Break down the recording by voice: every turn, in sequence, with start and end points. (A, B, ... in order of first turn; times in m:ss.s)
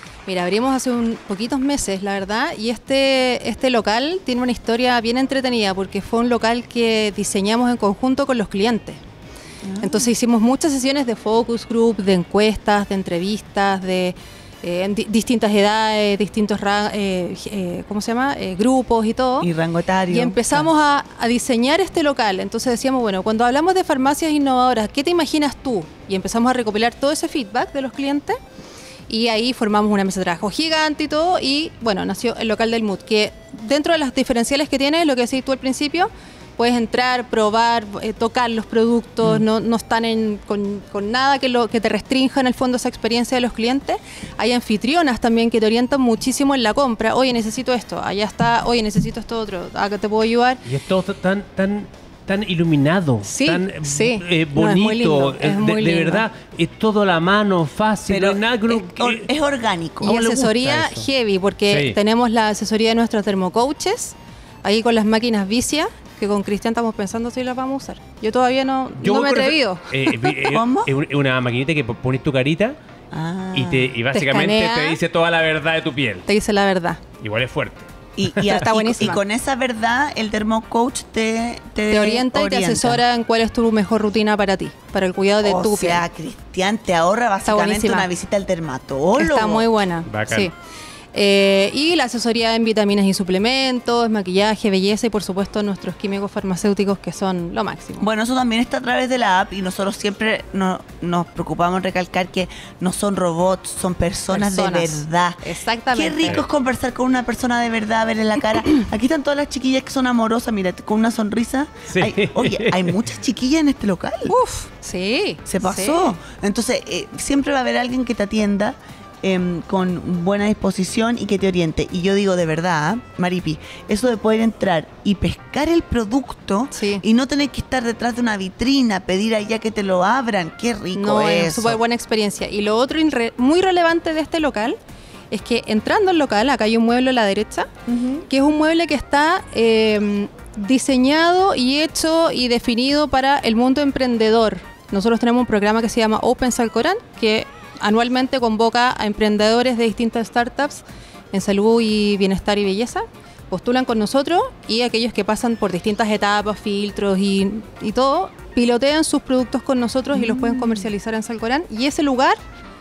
0:00.3-0:09.0 A
0:09.6-0:10.1 B
0:09.8-0:19.5 A
0:19.4-0:20.7 B
0:20.1-0:28.4 A
0:29.1-0:50.6 A
0:50.6-0:59.3 C
0:53.2-0:56.2 A
0:58.1-1:00.5 B
1:00.0-1:10.4 A
1:00.6-1:01.1 C
1:01.7-1:02.0 C
1:09.0-1:12.8 C
1:10.4-1:10.9 B
1:13.1-1:13.9 B
1:13.5-1:16.2 C
1:14.1-1:15.0 A
1:16.3-1:17.0 A
1:17.2-1:18.6 C
1:18.2-1:23.0 B
1:18.4-1:19.2 A
1:21.9-1:26.0 A
1:25.4-1:29.7 B
1:27.4-1:28.1 A
1:29.2-1:30.5 A
1:30.0-1:30.5 C
1:31.1-1:38.0 A
1:38.0-1:54.4 B
1:44.3-1:46.4 A
1:51.9-1:53.0 C
1:54.3-1:56.1 A
1:55.4-2:11.8 B
2:06.7-2:07.0 A
2:10.9-2:14.8 A
2:15.3-2:17.7 A
2:17.9-2:18.2 B
2:18.3-2:42.4 A
2:40.1-2:40.9 B